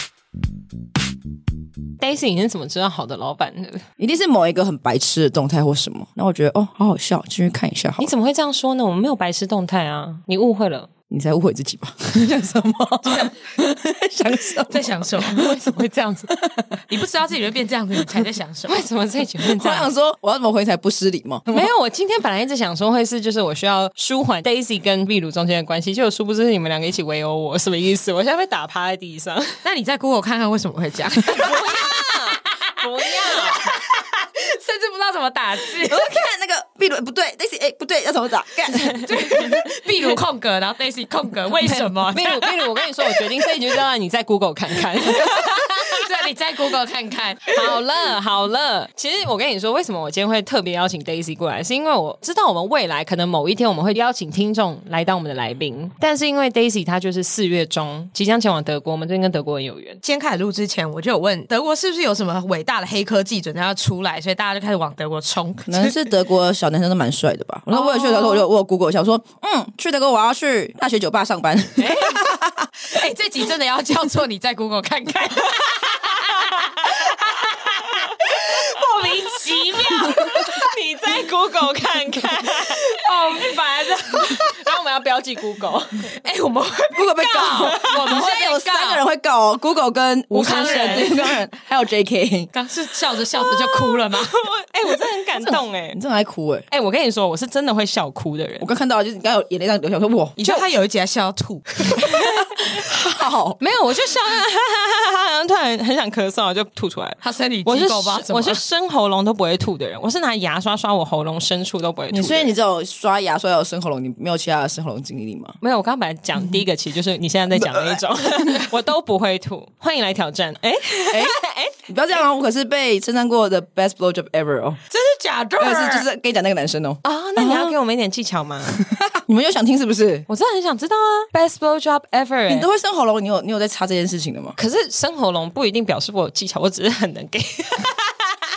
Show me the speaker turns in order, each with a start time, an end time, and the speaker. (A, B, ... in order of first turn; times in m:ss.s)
0:02.0-0:03.9 A
0:04.0-0:08.1 B
0:08.0-0:10.9 A
0:11.1-0:15.5 B
0:14.7-0:15.5 C
0:15.2-0:16.3 A
0:16.4-0:16.8 B
0:16.9-0:18.8 C
0:18.7-0:19.9 A
0:19.4-0:21.7 B
0:21.5-0:29.6 A
0:29.6-0:36.0 C
0:31.3-0:33.7 A
0:35.8-0:39.2 B
0:38.7-0:39.6 A
0:39.0-0:42.7 C
0:41.6-0:46.0 A
0:45.7-0:47.6 C
0:47.5-1:00.0 A
1:00.0-1:06.0 C
1:05.7-1:12.7 B
1:07.7-1:08.4 C
1:11.8-1:12.2 A
1:12.9-1:20.7 C
1:19.0-1:26.1 A
1:22.5-1:24.5 C
1:26.2-1:29.0 C
1:26.9-1:32.5 B
1:27.4-1:28.2 A
1:30.3-1:31.2 C
1:30.4-1:31.2 A
1:32.5-1:34.5 C
1:33.3-1:36.0 A
1:35.9-1:36.6 B
1:36.7-1:38.7 A
1:38.6-1:40.6 B
1:40.4-1:42.1 C
1:42.7-1:43.6 B
1:43.6-1:52.5 A
1:47.2-1:48.6 C
1:52.1-1:55.6 B
1:55.6-2:01.8 A
1:57.5-1:58.0 B
2:01.1-2:01.4 B
2:01.9-2:04.8 B
2:04.9-2:06.0 C
2:05.6-2:07.8 B
2:07.0-2:08.8 A
2:08.7-2:10.3 B
2:10.3-2:12.7 A
2:12.5-2:14.6 B
2:14.6-2:18.3 A